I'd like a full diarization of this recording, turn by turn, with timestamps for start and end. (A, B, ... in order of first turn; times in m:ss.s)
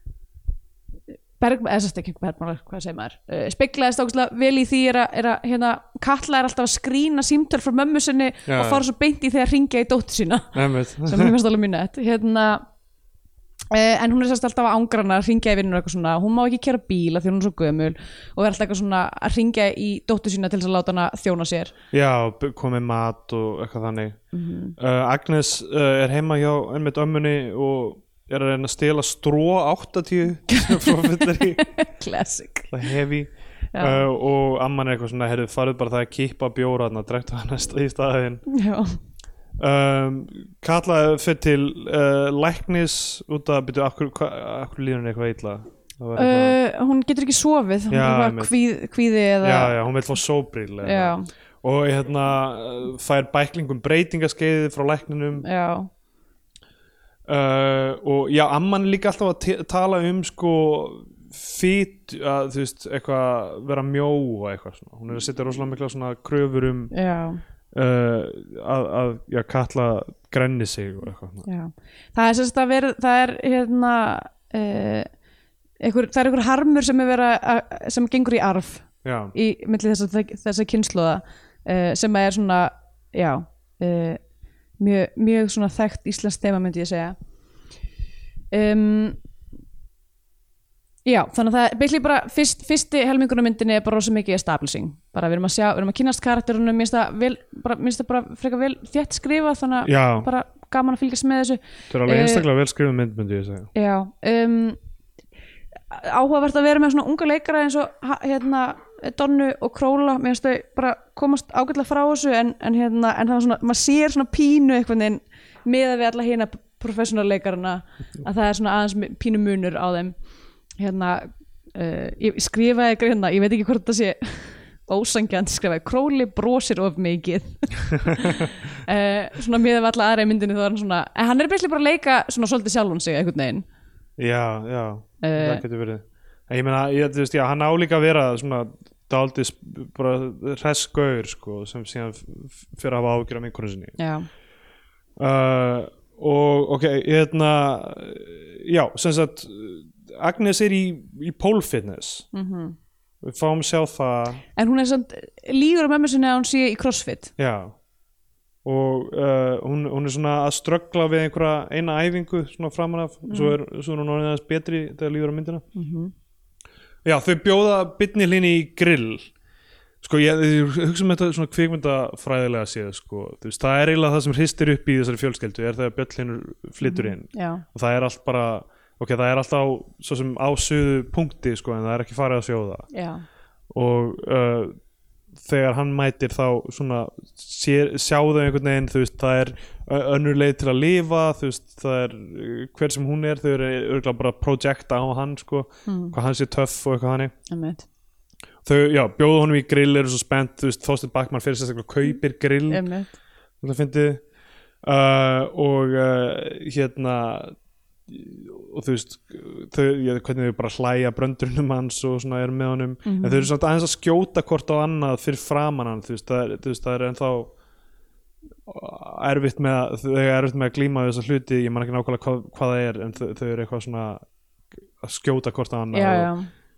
0:01.4-0:12.7 A
0:08.5-0:08.8 B
0:10.5-0:11.4 B
0:13.7-0:21.7 A
0:21.9-0:24.2 B
0:24.3-0:24.8 A
0:24.8-0:31.7 B
0:30.5-0:32.7 A
0:32.7-0:38.4 B
0:33.7-0:34.0 A
0:38.5-0:39.0 A
0:39.6-0:46.6 B
0:46.2-0:49.8 A
0:47.9-0:48.5 B
0:49.4-0:55.5 B
0:50.8-0:51.3 A
0:55.4-0:55.9 A
0:57.3-1:06.9 B
1:06.9-1:07.4 A
1:07.7-1:11.5 B
1:11.5-1:15.1 A
1:15.8-1:24.2 A
1:19.0-1:19.3 B
1:24.8-1:27.2 A
1:28.5-1:29.2 A
1:31.0-1:42.4 A
1:39.8-1:40.3 B
1:41.9-1:43.7 B
1:43.8-1:44.8 A
1:45.9-2:00.1 A
2:00.8-2:13.6 A
2:08.1-2:08.5 B
2:14.2-2:24.0 B
2:15.2-2:15.6 A
2:24.0-2:24.3 A
2:25.2-2:32.3 B
2:32.3-2:32.8 A
2:33.2-2:34.4 B
2:34.6-2:37.3 A
2:37.4-2:37.8 B
2:38.6-2:45.6 B
2:43.3-2:43.6 A
2:45.8-2:46.1 A
2:47.0-2:49.3 B
2:50.0-3:02.9 B
2:56.8-2:57.6 A
3:02.9-3:03.2 A
3:03.7-3:04.8 B
3:05.4-3:17.3 B
3:15.9-3:16.2 A
3:17.5-3:17.8 A
3:18.6-3:22.8 B
3:22.7-3:23.1 A
3:23.6-3:24.2 B
3:24.8-3:27.6 B
3:28.1-3:37.5 B
3:33.0-3:33.5 A
3:38.7-3:44.2 B
3:45.0-3:46.3 B
3:45.9-3:46.5 A